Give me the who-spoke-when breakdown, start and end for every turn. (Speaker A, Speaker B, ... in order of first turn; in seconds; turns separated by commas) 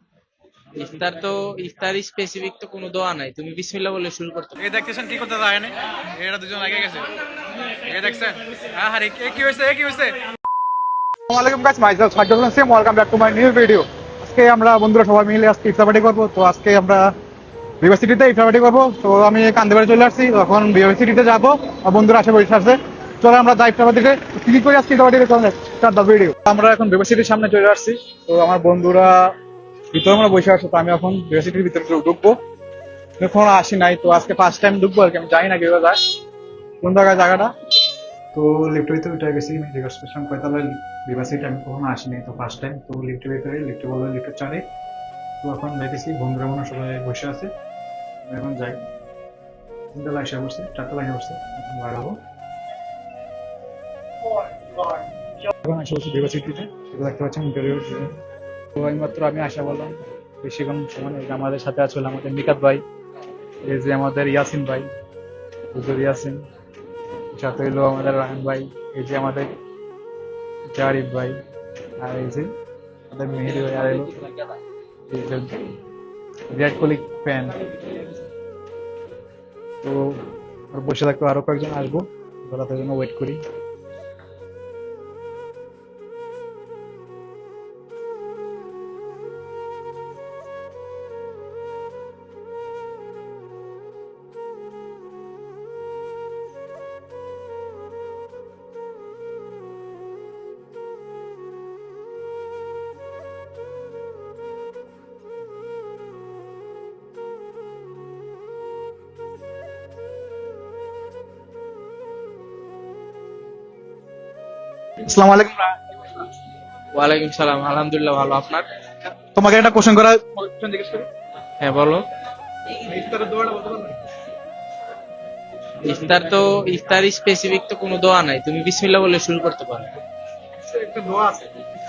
Speaker A: 0.7-4.5, Speaker B: 4.6-7.1, Speaker B: 7.9-10.1, Speaker C: 11.3-17.1, Speaker C: 17.8-29.3, Speaker C: 29.9-32.4, Speaker C: 33.2-36.2, Speaker C: 36.8-37.5, Speaker C: 38.3-44.7, Speaker C: 45.4-47.5, Speaker C: 48.3-48.8, Speaker C: 49.9-52.2, Speaker C: 55.6-58.1, Speaker C: 58.8-62.8, Speaker C: 63.6-64.9, Speaker C: 65.7-66.4, Speaker C: 67.3-69.5, Speaker C: 70.7-71.4, Speaker C: 72.0-72.5, Speaker C: 73.1-74.1, Speaker C: 75.1-75.7, Speaker C: 76.5-77.6, Speaker C: 79.8-83.4, Speaker C: 115.0-115.8, Speaker A: 116.9-118.7, Speaker C: 119.3-121.1, Speaker A: 121.6-122.0, Speaker C: 122.8-124.0, Speaker A: 125.8-129.9, Speaker C: 130.7-131.5